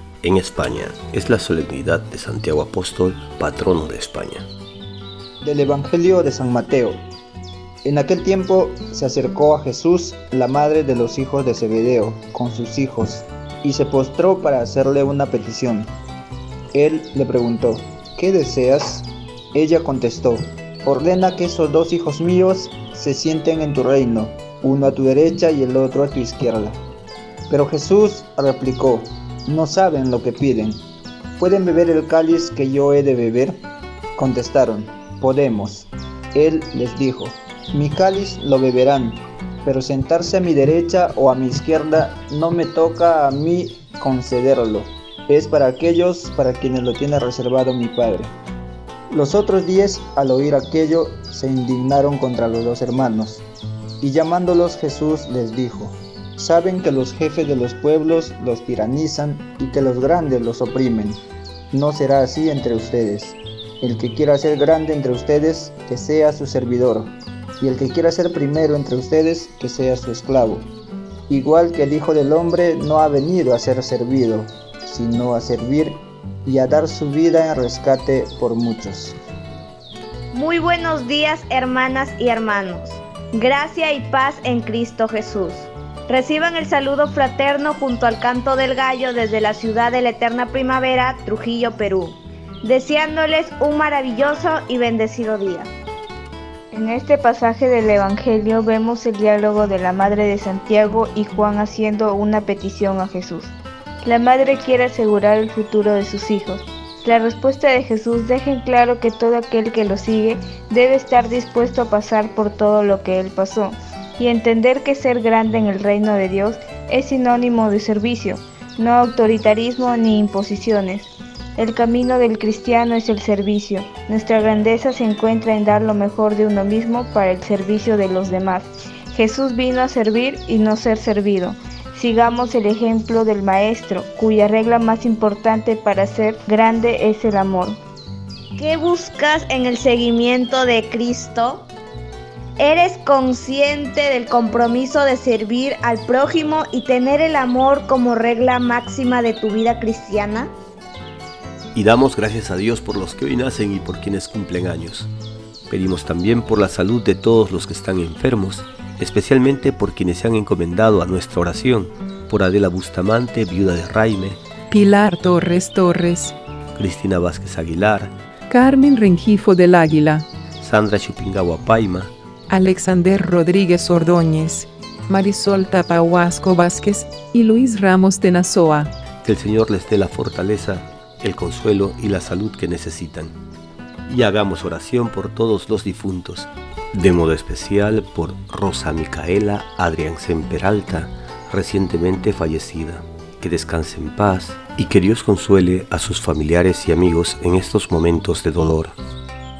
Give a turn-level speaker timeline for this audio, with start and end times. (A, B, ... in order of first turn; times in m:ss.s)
0:00.2-0:04.4 A
0:05.4-0:07.0 B
0:07.8-0:15.9 B
0:16.7-0:26.8 B
0:27.5-0:30.8 B
0:31.4-0:33.6 B
0:34.2-0:48.3 B
0:49.1-0:53.4 B
0:54.0-1:10.7 B
1:11.3-1:19.2 B
1:20.3-1:35.7 C
1:36.7-2:17.8 D
2:18.6-2:21.7 C
2:22.6-2:30.5 C
2:31.7-2:35.1 A
2:35.7-2:44.4 A
2:44.7-2:46.3 E
2:46.8-2:48.2 A
2:48.5-2:50.3 E
2:50.6-2:52.1 A
2:52.5-2:58.9 E
2:59.2-3:03.4 A
3:04.1-3:18.9 A